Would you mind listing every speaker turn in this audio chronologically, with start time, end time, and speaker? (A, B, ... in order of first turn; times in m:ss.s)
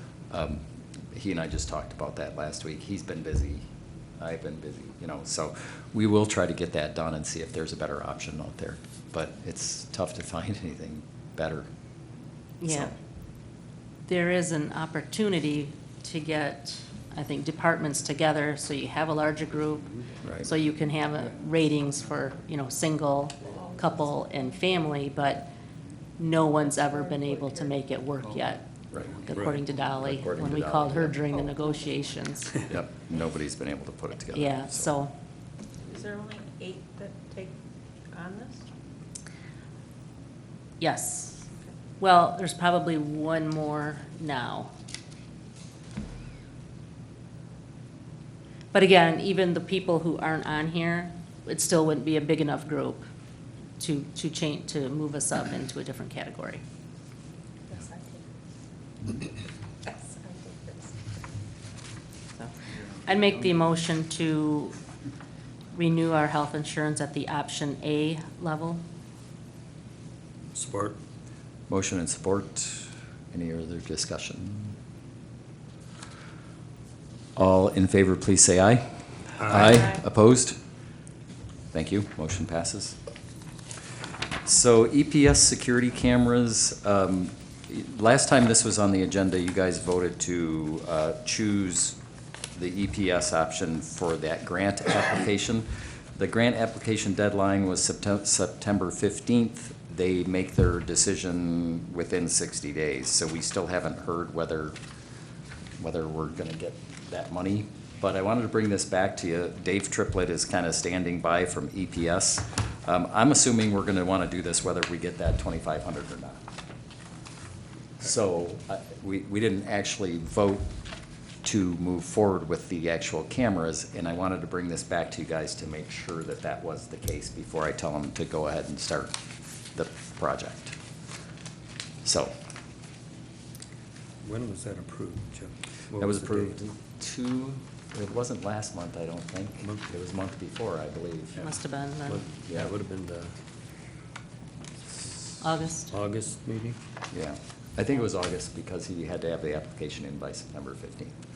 0:00.3-0:03.7 A
0:04.2-0:11.7 A
0:12.6-0:12.9 B
0:12.6-0:12.9 A
0:14.1-0:25.5 B
0:20.2-0:20.5 A
0:23.4-0:25.0 C
0:26.2-0:32.6 B
0:26.6-0:27.8 C
0:28.9-0:31.2 A
0:29.3-0:29.6 D
0:31.2-0:32.1 C
0:32.6-0:34.9 A
0:34.3-0:35.1 B
0:35.8-0:37.5 C
0:38.1-0:38.6 C
0:40.8-0:44.7 B
0:48.7-0:53.1 B
0:53.8-0:56.6 B
0:57.7-0:58.2 C
0:59.1-1:01.0 C
1:03.0-1:04.8 B
1:05.7-1:08.8 B
1:10.5-1:11.0 D
1:11.7-1:14.8 A
1:17.4-1:18.8 A
1:19.4-1:20.6 A
1:19.4-1:19.8 D
1:21.7-1:23.0 A
1:24.4-1:32.0 A
1:32.5-1:44.8 A
1:45.8-1:56.4 A
1:58.0-2:00.7 A
2:01.4-2:09.1 A
2:09.7-2:10.7 A
2:12.0-2:12.3 A
2:14.2-2:16.6 D
2:16.0-2:21.5 A
2:21.3-2:22.2 B
2:22.1-2:23.3 D
2:25.4-2:25.9 B
2:25.9-2:26.8 D
2:27.1-2:31.1 A